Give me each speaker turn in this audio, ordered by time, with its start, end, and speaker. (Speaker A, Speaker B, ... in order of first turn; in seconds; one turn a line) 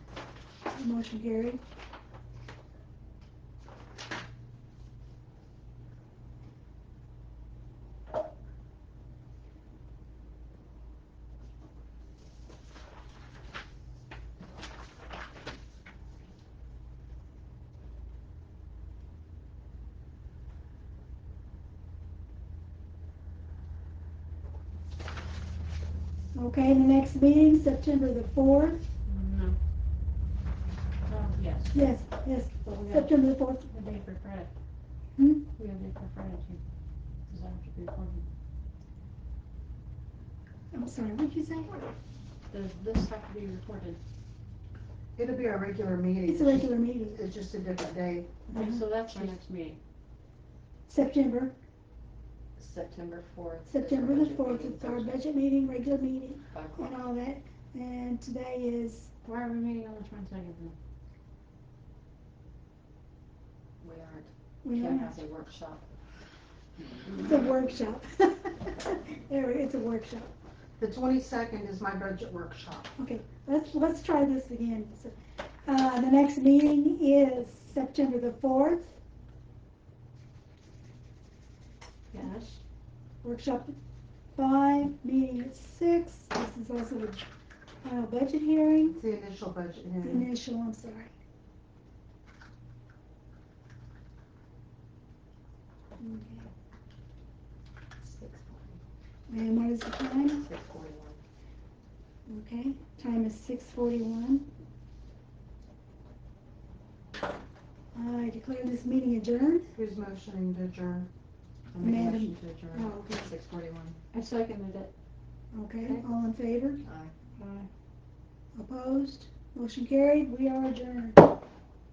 Speaker A: 0.7-1.6
Speaker A: 26.3-28.8
Speaker B: 29.1-29.6
Speaker B: 31.1-32.0
Speaker A: 31.7-33.7
Speaker B: 32.6-34.5
Speaker A: 35.2-35.4
Speaker B: 35.5-36.6
Speaker B: 37.3-38.2
Speaker A: 40.7-41.9
Speaker B: 42.5-44.0
Speaker C: 45.1-48.5
Speaker A: 46.3-47.2
Speaker B: 48.5-49.8
Speaker A: 48.5-48.8
Speaker A: 50.9-51.5
Speaker D: 52.6-55.2
Speaker A: 53.7-59.1
Speaker D: 56.5-57.0
Speaker B: 59.2-60.8
Speaker D: 63.8-65.8
Speaker A: 64.6-65.1
Speaker A: 67.2-70.3
Speaker C: 70.8-72.9
Speaker A: 73.0-79.0
Speaker B: 82.1-82.6
Speaker A: 83.2-83.8
Speaker A: 84.3-87.3
Speaker A: 87.8-89.0
Speaker C: 88.9-90.3
Speaker A: 90.0-91.1
Speaker A: 96.0-96.5
Speaker D: 98.0-98.8
Speaker A: 99.3-100.4
Speaker D: 100.3-101.2
Speaker A: 102.3-104.5
Speaker A: 107.9-109.7
Speaker C: 109.7-111.1
Speaker C: 111.7-114.0
Speaker A: 111.8-113.3
Speaker B: 114.1-114.9
Speaker A: 115.5-116.8
Speaker D: 116.8-117.1
Speaker B: 117.4-117.7
Speaker A: 118.5-121.2